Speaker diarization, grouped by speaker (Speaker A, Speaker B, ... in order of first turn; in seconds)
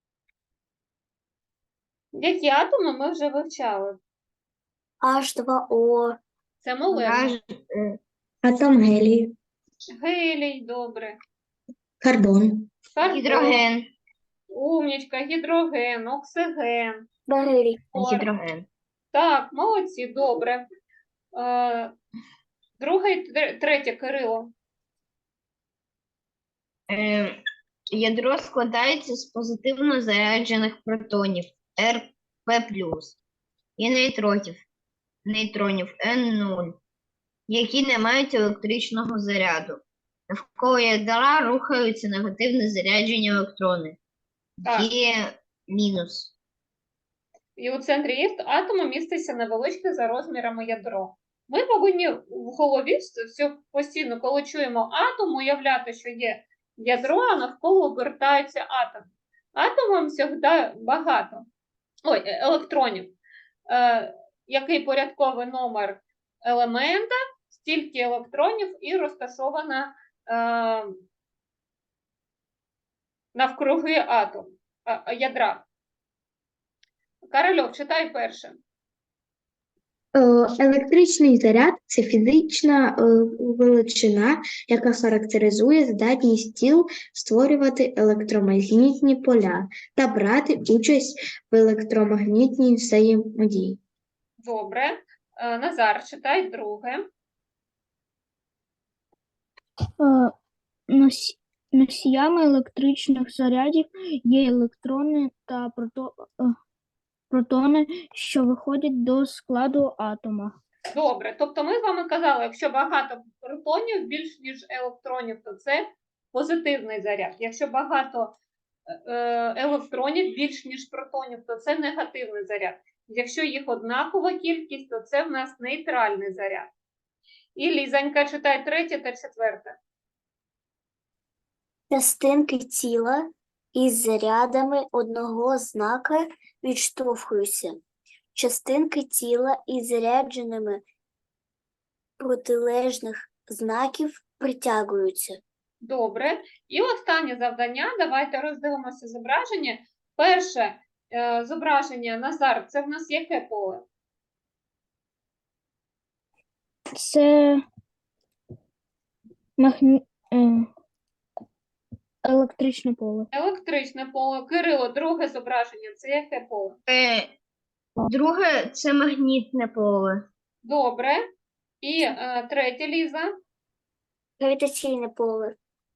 Speaker A: 2.1-4.0, 6.6-7.4, 9.9-11.2, 12.9-13.6, 14.5-17.0, 17.9-18.3, 19.1-20.6, 21.3-21.9, 22.8-24.5, 44.6-44.9, 47.6-61.5, 62.0-63.1, 63.7-70.9, 73.3-75.6, 77.3-78.6, 94.4-97.1, 110.9-118.3, 118.9-126.7, 127.5-129.8, 145.8-153.8, 163.3-166.8, 170.6-171.2, 171.8-173.3
Speaker B: 5.0-6.2, 17.3-17.9, 131.9-137.8, 138.3-140.8, 142.2-145.4, 174.4-175.5
Speaker C: 6.9-8.0, 13.0-13.8, 17.9-18.7, 26.9-27.4, 27.9-33.2, 33.8-34.6, 35.2-36.8, 37.5-44.0, 44.6-46.3, 166.9-167.3, 168.0-170.2
Speaker D: 8.4-9.3, 12.0-12.7, 80.1-93.8
Speaker E: 100.0-100.3, 100.9-106.5, 107.3-110.6, 156.9-157.6, 159.6-160.7, 162.2-163.3